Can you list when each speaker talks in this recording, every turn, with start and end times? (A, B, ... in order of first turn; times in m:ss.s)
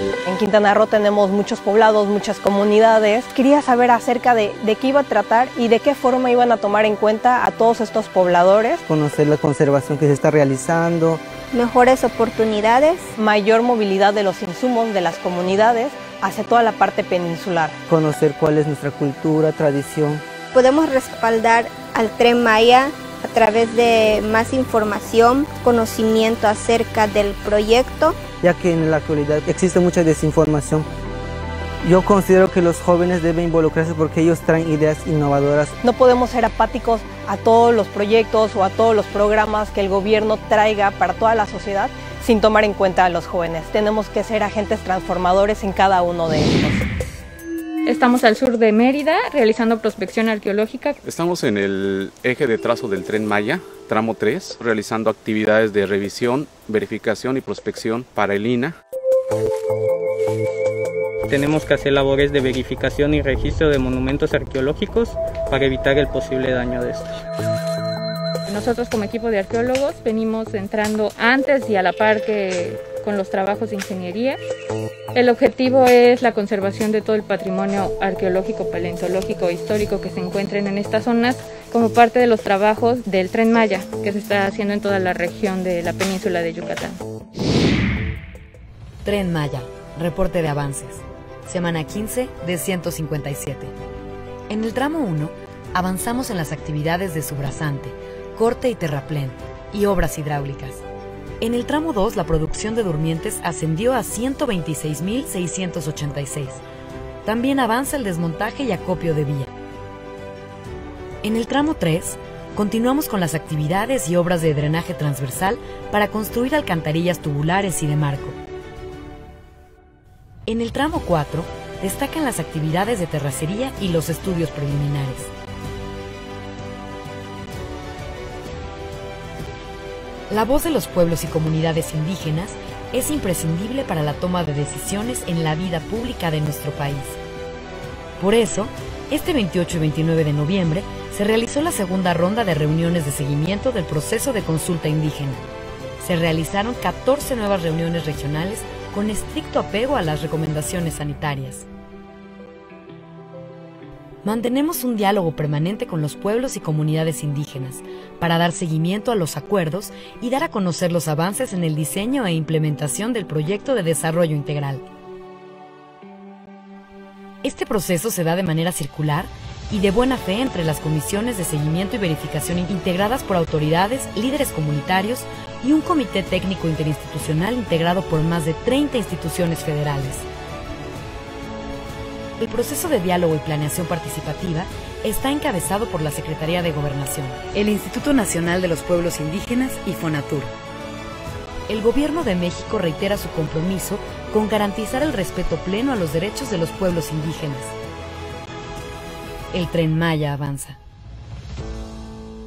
0:00.2-0:08.8 A
0:08.8-0:11.2 B
0:11.5-0:13.1 C
0:13.2-0:17.8 A
0:17.9-0:20.2 B
0:20.5-0:28.2 C
0:28.4-0:30.9 B
0:31.8-0:35.7 B
0:35.8-0:46.8 A
0:47.8-0:51.0 D
0:51.0-0:58.8 E
1:01.3-1:07.2 F
1:08.4-1:14.4 D
1:15.1-1:27.0 D
1:29.0-1:33.7 G
1:34.5-1:40.8 G
1:41.4-1:46.6 G
1:47.2-1:49.5 G
1:51.2-1:58.4 G
2:00.5-2:05.3 G
2:10.3-2:17.2 G
2:18.2-2:25.4 G
2:26.0-2:31.7 G
2:34.2-2:44.8 G
2:47.4-3:00.2 G
3:02.4-3:10.5 G
3:11.7-3:17.8 G
3:19.5-3:20.8 G